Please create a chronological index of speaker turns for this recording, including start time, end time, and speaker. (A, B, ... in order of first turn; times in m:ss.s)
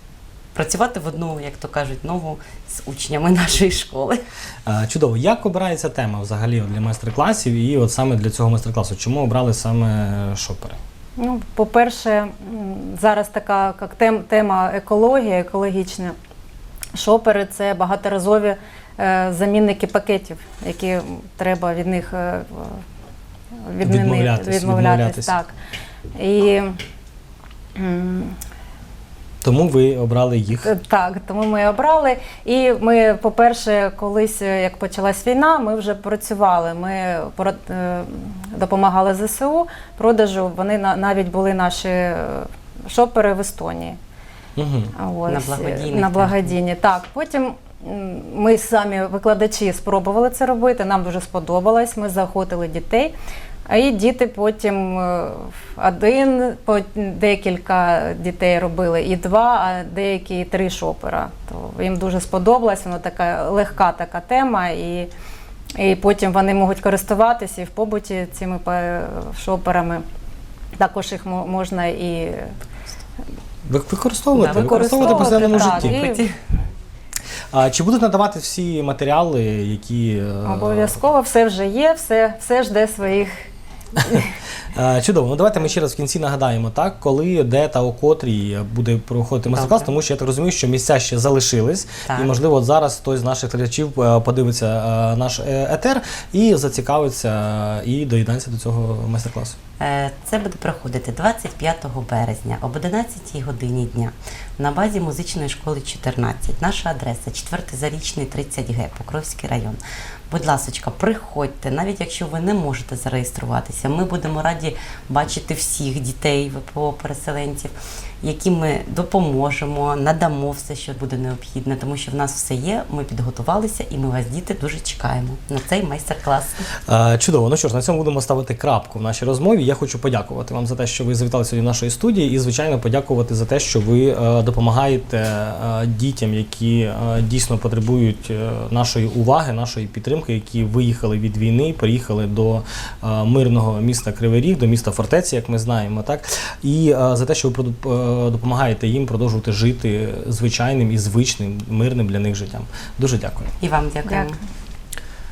0:00.5-0:04.2 A
0:04.6-0:10.8 B
0:11.2-0:16.1 C
0:16.9-0:22.8 C
0:23.6-0:25.5 C
0:23.8-0:25.4 B
0:26.2-0:26.8 C
0:27.8-0:28.4 C
0:29.4-0:30.7 B
0:30.6-0:44.0 C
0:44.6-0:44.9 B
0:45.0-0:53.1 C
0:45.3-0:46.5 A
0:53.7-1:05.1 C
1:05.8-1:10.0 C
1:10.8-1:12.5 C
1:13.7-1:16.0 B
1:14.3-1:16.3 A
1:14.4-1:16.2 C
1:17.5-1:20.9 B
1:20.4-1:23.5 C
1:24.7-1:39.6 B
1:29.5-1:29.9 A
1:32.0-1:32.3 A
1:39.8-2:06.7 A
2:06.9-2:33.5 B
2:33.6-2:34.4 A
2:34.0-2:34.3 C